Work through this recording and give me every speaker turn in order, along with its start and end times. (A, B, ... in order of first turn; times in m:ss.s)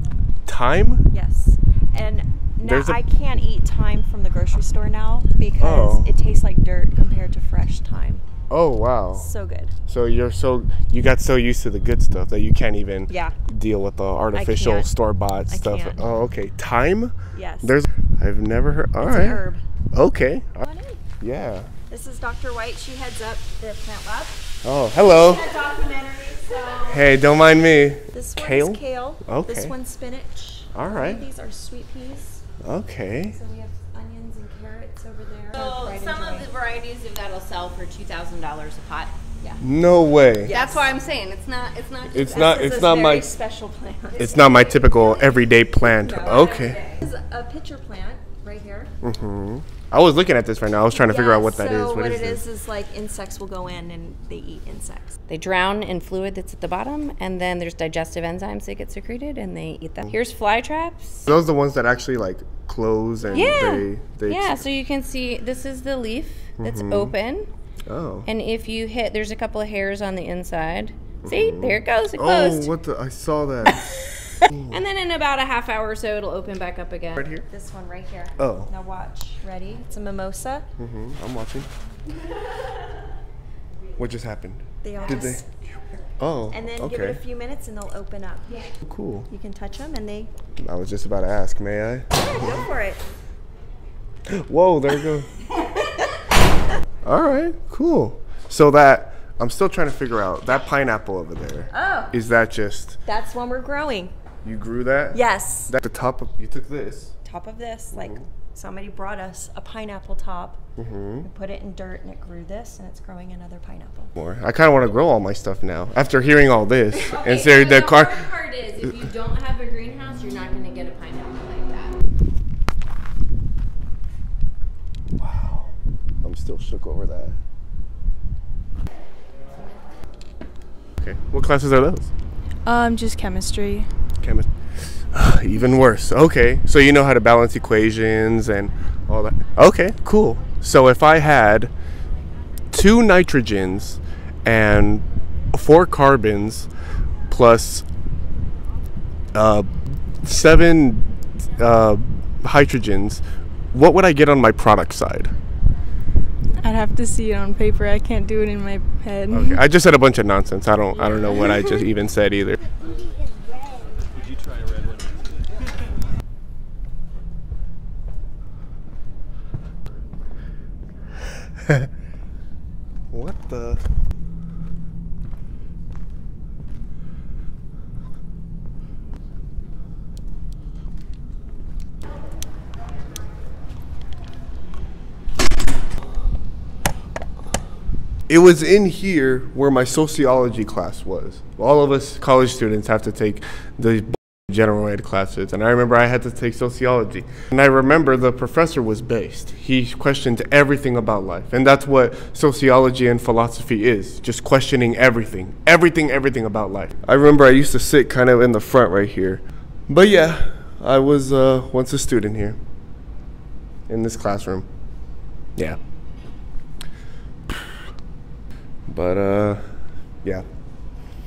0:00.5-0:01.1 A
0:01.1-0:08.2 B
0:02.6-0:03.0 A
0:05.6-0:06.1 A
0:08.5-0:09.3 A
0:09.1-0:09.7 B
0:09.9-0:20.6 A
0:13.1-0:13.4 B
0:14.3-0:14.9 B
0:15.5-0:16.0 B
0:17.3-0:17.7 B
0:19.0-0:19.6 B
0:20.6-0:21.0 B
0:21.2-0:21.7 A
0:21.9-0:24.4 B
0:24.6-0:25.5 A
0:25.0-0:27.0 B
0:26.9-0:29.8 A
0:28.1-0:32.4 B
0:30.7-0:31.3 A
0:32.6-0:33.4 A
0:33.3-0:36.5 B
0:35.5-0:39.1 C
0:39.6-0:40.6 A
0:40.4-0:40.9 B
0:40.4-0:43.1 C
0:42.1-0:43.3 A
0:42.2-0:48.9 B
0:44.2-0:46.8 A
0:49.0-0:52.4 A
0:50.9-0:55.2 B
0:55.3-1:01.3 C
1:01.3-1:04.6 A
1:03.3-1:07.5 C
1:06.6-1:07.1 A
1:07.9-1:08.3 A
1:08.2-1:12.7 C
1:11.2-1:14.8 A
1:14.7-1:17.2 C
1:17.2-1:17.5 A
1:17.5-1:20.7 B
1:18.4-1:18.7 A
1:20.8-1:21.7 A
1:24.0-1:27.2 A
1:24.8-1:25.5 B
1:26.5-1:28.7 B
1:28.8-1:29.3 A
1:29.3-1:30.3 B
1:30.6-1:32.6 A
1:32.2-1:33.0 B
1:34.3-1:35.3 A
1:37.0-1:43.0 A
1:41.7-1:42.1 B
1:43.0-1:44.1 B
1:44.4-1:47.2 A
1:45.1-1:45.7 B
1:47.2-1:50.6 B
1:47.9-1:48.3 A
1:50.8-1:51.3 A
1:51.2-1:54.1 B
1:54.2-1:58.3 A
1:56.9-2:02.0 C
2:05.2-2:07.4 A
2:11.0-2:12.1 A
2:12.7-2:13.9 D
2:14.2-2:21.7 A
2:22.7-2:26.7 A
2:27.3-2:27.8 A
2:29.3-2:35.4 A
2:36.6-2:39.6 D
2:39.3-2:42.6 A
2:53.1-2:53.8 A
3:08.3-3:32.6 A
3:33.9-3:34.7 A
3:38.9-3:40.4 A